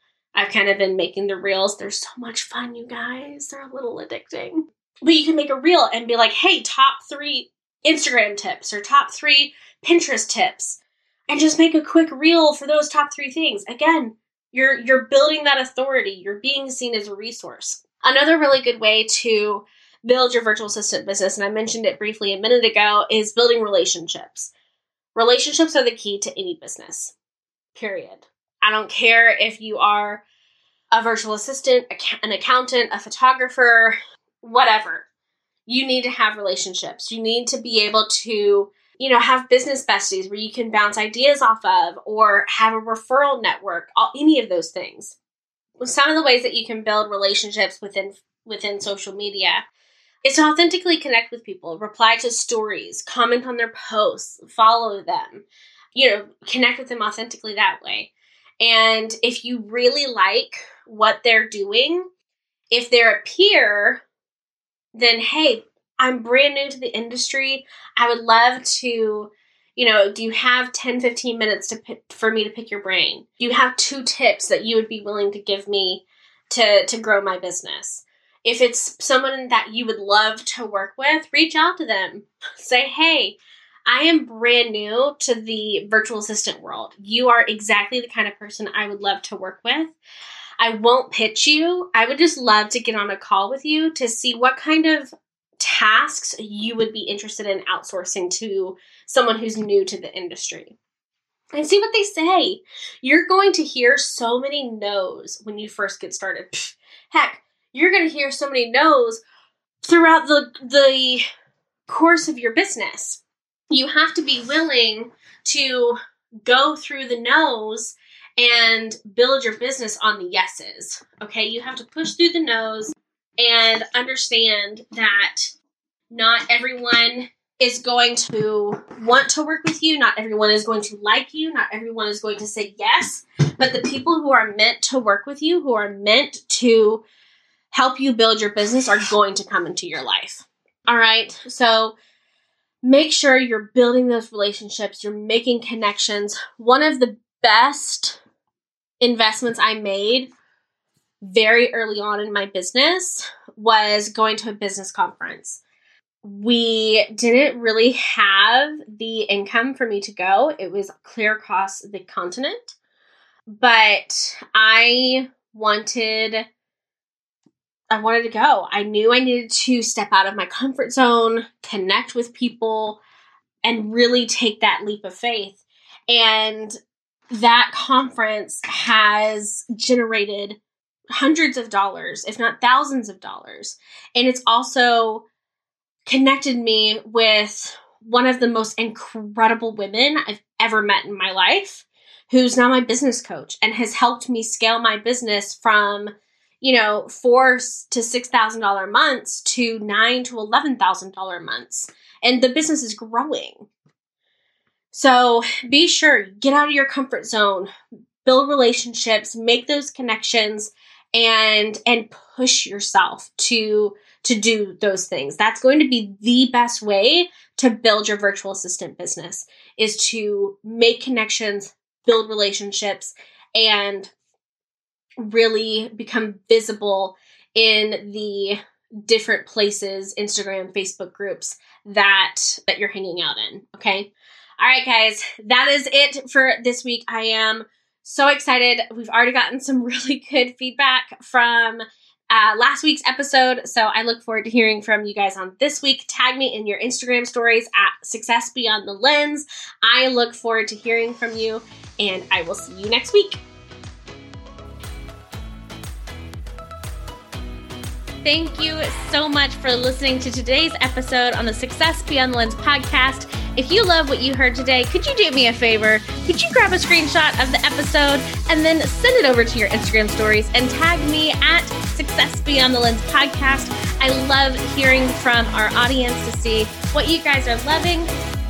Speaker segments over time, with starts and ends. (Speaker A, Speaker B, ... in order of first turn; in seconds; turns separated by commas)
Speaker A: 0.3-24.5, Speaker A: 25.1-27.1, Speaker A: 27.7-30.2, Speaker A: 30.9-35.0, Speaker A: 35.7-45.2, Speaker A: 45.8-49.6, Speaker A: 50.2-62.0, Speaker A: 62.7-64.0, Speaker A: 64.9-89.9, Speaker A: 90.6-100.8, Speaker A: 101.5-109.2, Speaker A: 109.8-111.2, Speaker A: 111.9-125.5, Speaker A: 126.1-137.0, Speaker A: 137.7-141.9, Speaker A: 142.8-148.2, Speaker A: 149.0-150.3, Speaker A: 151.2-155.6, Speaker A: 156.2-162.8, Speaker A: 163.5-166.4, Speaker A: 167.9-173.0, Speaker A: 173.6-176.8, Speaker A: 177.3-180.6, Speaker A: 181.2-185.2, Speaker A: 186.1-203.7, Speaker A: 204.9-207.7, Speaker A: 208.2-224.1, Speaker A: 225.2-253.4, Speaker A: 258.2-278.1